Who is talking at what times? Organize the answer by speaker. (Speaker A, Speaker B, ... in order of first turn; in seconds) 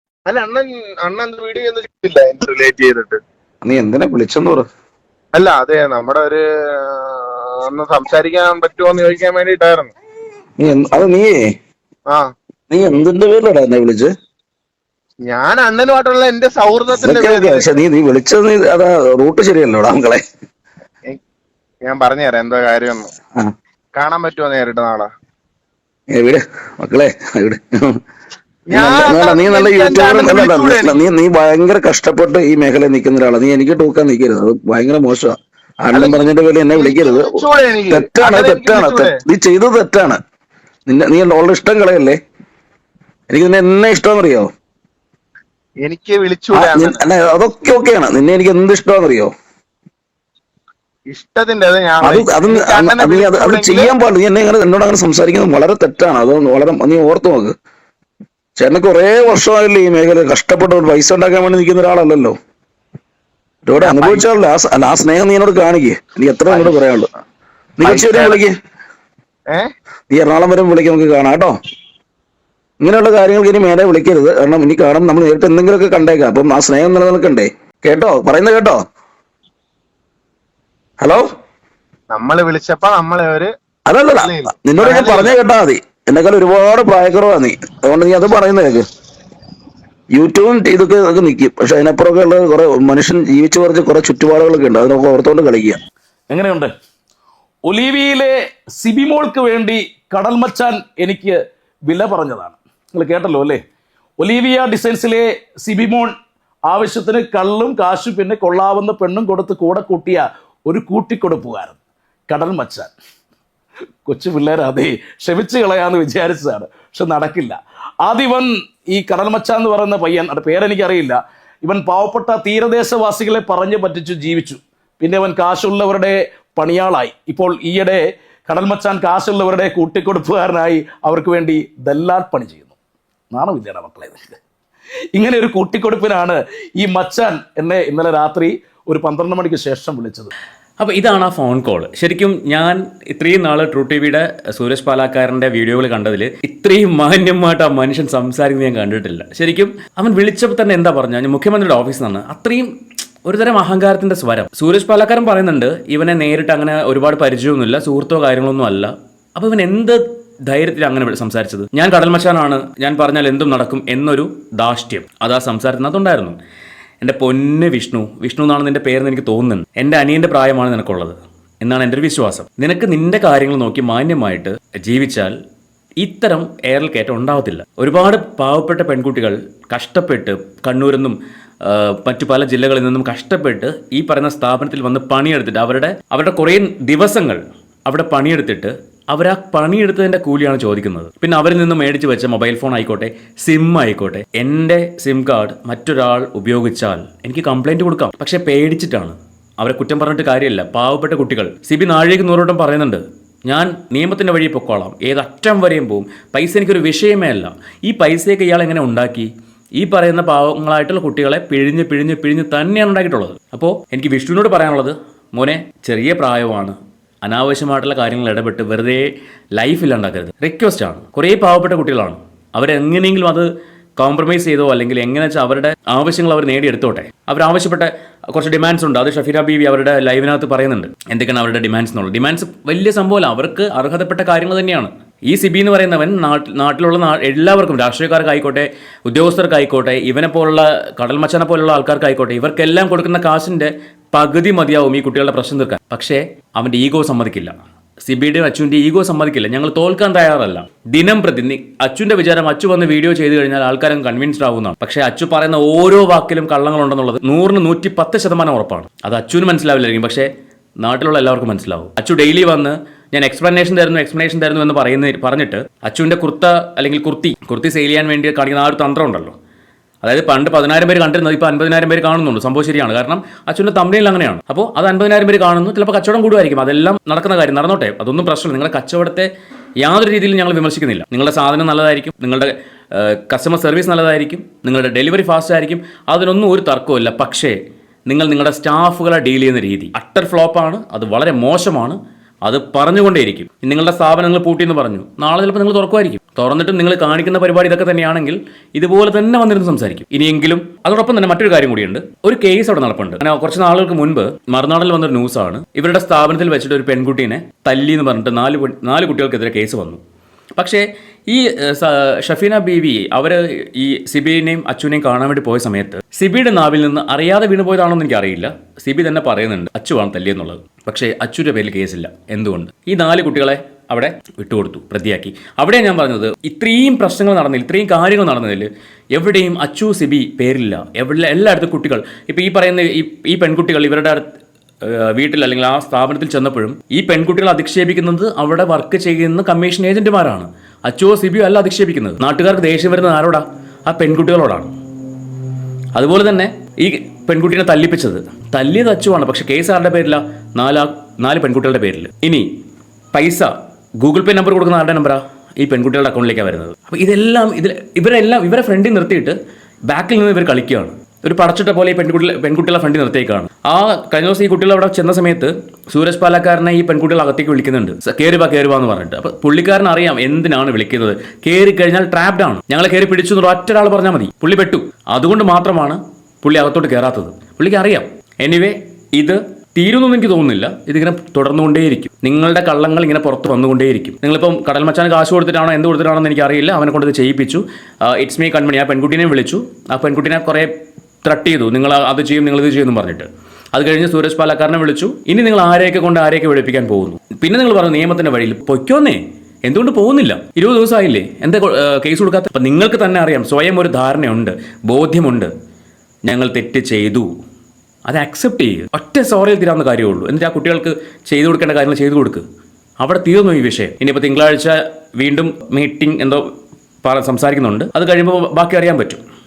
Speaker A: 0.3-3.2, 5.3-9.9, 15.2-17.7, 21.8-23.1, 23.9-25.1, 28.7-31.0, 35.9-36.2, 36.7-39.2, 45.8-47.0, 51.1-53.9, 63.8-64.2, 67.8-68.4, 82.1-83.5, 84.2-85.3
Speaker B: 3.6-4.7, 10.6-11.4, 12.7-14.1, 16.9-20.2, 26.1-28.0, 28.7-40.2, 40.9-42.2, 43.3-44.5, 46.5-49.3, 52.0-57.5, 58.6-62.4, 63.7-67.1, 67.8-68.5, 70.1-71.5, 72.8-78.8, 81.0-81.3, 83.9-88.8, 90.1-95.8
Speaker C: 96.3-96.7, 97.7-103.6, 104.2-106.2, 106.7-111.8, 112.3-112.9, 114.1-132.8, 133.3-134.4, 135.1-140.3
Speaker D: 140.8-166.4, 167.0-175.4, 176.0-269.4, 270.0-310.0, 310.6-344.7, 345.9-352.5, 353.1-405.5, 406.2-407.3, 408.1-412.4, 413.0-416.5, 417.0-419.2